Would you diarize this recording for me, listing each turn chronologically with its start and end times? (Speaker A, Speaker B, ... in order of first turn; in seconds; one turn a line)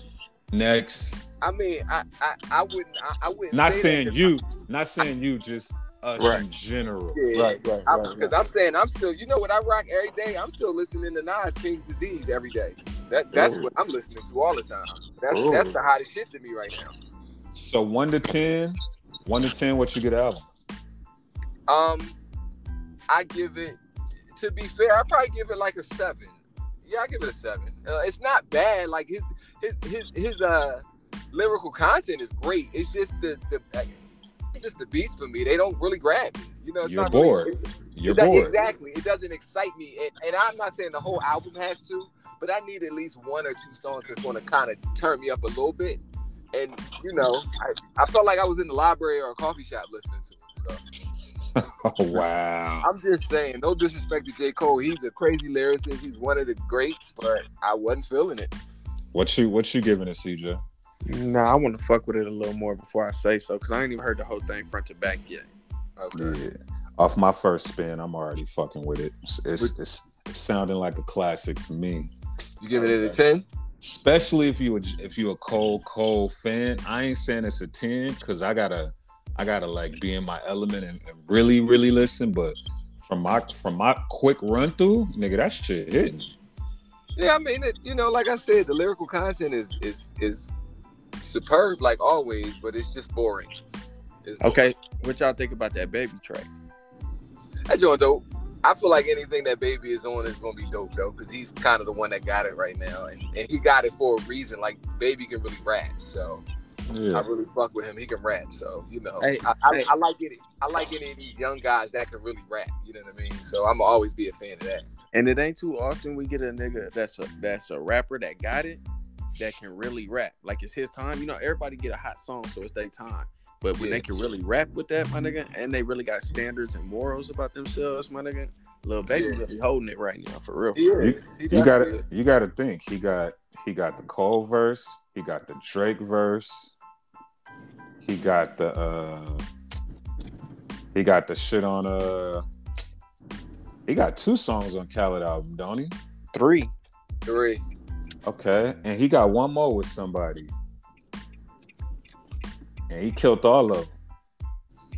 Speaker A: 0.5-1.2
Speaker B: 1.4-4.3
Speaker A: 3.5-7.2
Speaker C: 6.2-6.4
Speaker B: 7.1-16.9
Speaker C: 7.3-8.3
Speaker A: 13.3-13.6
Speaker C: 15.3-15.7
Speaker A: 17.5-20.5
Speaker B: 21.7-22.2
Speaker B: 23.1-23.8
Speaker B: 24.3-34.0
Speaker B: 34.5-46.0
Speaker A: 36.8-38.5
Speaker B: 46.5-50.8
Speaker A: 51.5-52.9
Speaker B: 52.8-58.5
Speaker A: 59.1-60.6
Speaker C: 61.0-65.5
Speaker B: 66.0-66.4
Speaker A: 66.1-72.1
Speaker B: 72.6-73.4
Speaker A: 72.7-73.2
Speaker A: 73.8-86.2
Speaker B: 87.2-90.5
Speaker B: 91.2-93.5
Speaker B: 94.2-94.6
Speaker C: 94.4-96.5
Speaker B: 97.7-106.4
Speaker A: 106.9-107.3
Speaker B: 107.1-114.8
Speaker C: 109.2-109.9
Speaker C: 115.1-118.8
Speaker C: 119.4-130.8
Speaker B: 123.8-124.0
Speaker B: 129.1-129.4
Speaker B: 130.7-132.0
Speaker A: 130.9-136.7
Speaker A: 138.0-139.4
Speaker A: 140.9-142.4
Speaker A: 143.9-145.9
Speaker C: 146.3-146.7
Speaker B: 147.2-147.6
Speaker A: 148.2-150.5
Speaker A: 152.9-153.9